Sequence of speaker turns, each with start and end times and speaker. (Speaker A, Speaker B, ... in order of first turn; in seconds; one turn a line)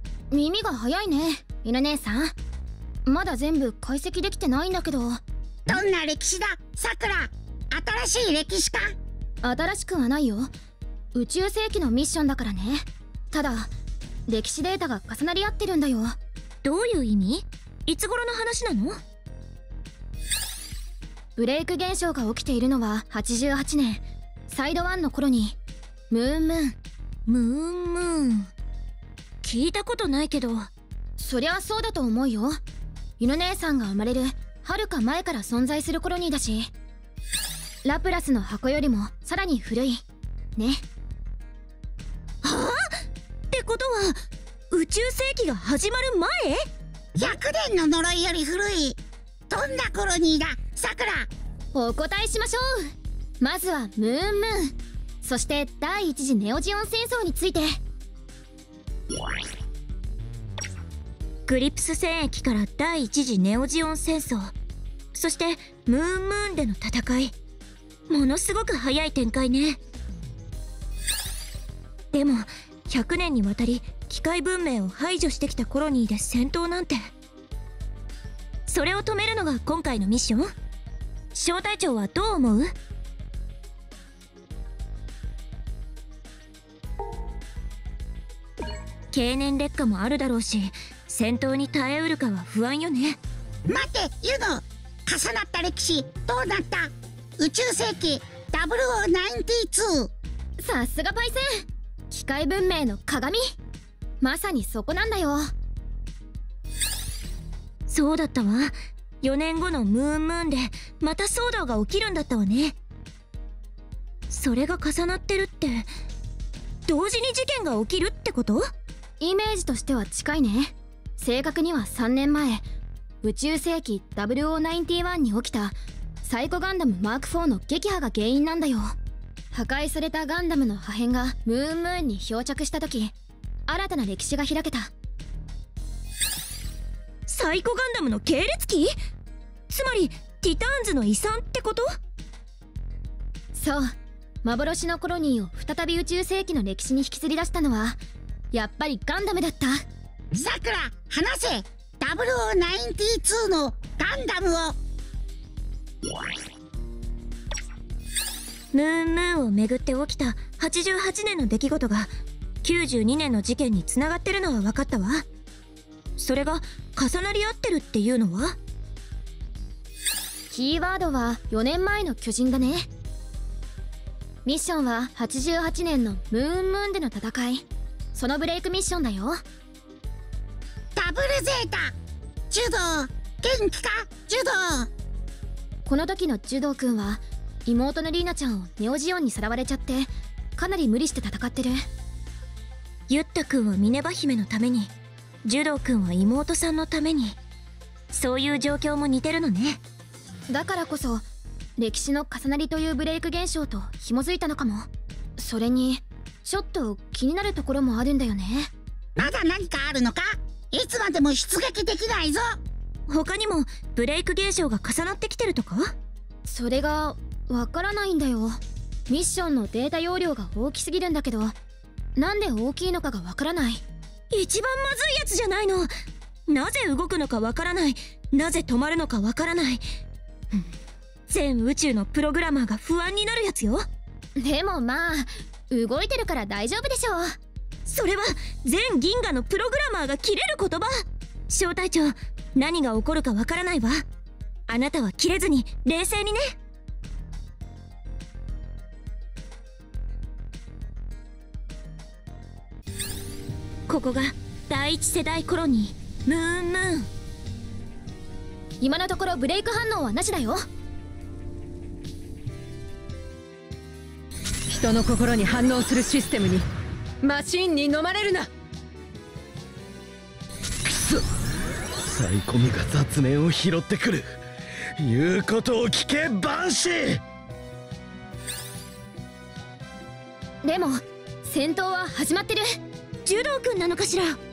Speaker A: 0.3-2.3
Speaker A: 3.0-5.2
Speaker B: 5.7-8.9
Speaker A: 9.4-10.5
Speaker A: 11.1-13.7
Speaker A: 14.3-16.1
Speaker C: 16.6-19.0
Speaker A: 21.4-25.6
Speaker A: 26.1-26.8
Speaker C: 27.3-28.5
Speaker C: 29.4-30.7
Speaker A: 31.2-32.6
Speaker A: 33.2-36.7
Speaker A: 37.8-40.0
Speaker A: 40.5-40.8
Speaker C: 42.4-42.8
Speaker C: 43.5-44.2
Speaker C: 44.7-46.7
Speaker B: 47.1-51.3
Speaker A: 51.7-57.7
Speaker C: 61.5-64.5
Speaker C: 65.1-67.3
Speaker C: 68.1-69.8
Speaker C: 72.1-77.1
Speaker C: 78.7-80.5
Speaker C: 81.3-82.7
Speaker C: 89.1-93.2
Speaker B: 93.7-100.1
Speaker A: 100.6-103.5
Speaker A: 104.2-105.5
Speaker C: 107.9-112.8
Speaker C: 114.3-115.9
Speaker C: 116.8-118.7
Speaker A: 119.2-122.6
Speaker A: 123.2-128.9
Speaker A: 129.5-133.1
Speaker A: 133.7-134.9
Speaker C: 137.3-138.9
Speaker C: 139.7-141.9
Speaker A: 143.5-143.9
Speaker A: 144.4-148.0
Speaker A: 148.5-149.8
Speaker B: 150.3-154.8
Speaker C: 158.7-162.1
Speaker C: 162.6-165.2
Speaker C: 166.2-168.6
Speaker A: 170.5-172.9
Speaker A: 174.4-179.4
Speaker B: 180.9-181.9
Speaker B: 182.5-184.9
Speaker A: 185.8-191.8
Speaker C: 193.1-194.9
Speaker C: 195.4-197.4
Speaker C: 198.1-199.8
Speaker A: 200.5-201.2
Speaker A: 201.8-204.9
Speaker A: 205.4-208.7
Speaker B: 209.2-212.6
Speaker C: 213.1-215.9
Speaker A: 216.4-221.5
Speaker A: 222.2-223.8
Speaker C: 224.3-225.9
Speaker C: 226.5-229.8
Speaker C: 231.3-233.9
Speaker A: 234.4-237.3
Speaker C: 237.8-240.9
Speaker C: 241.5-244.0
Speaker C: 244.7-246.5
Speaker C: 253.9-257.1
Speaker A: 258.8-260.6
Speaker D: 264.7-266.6
Speaker D: 267.2-268.5
Speaker E: 270.8-271.2
Speaker E: 272.1-274.3
Speaker E: 275.0-277.2
Speaker A: 280.6-282.8
Speaker C: 283.2-284.4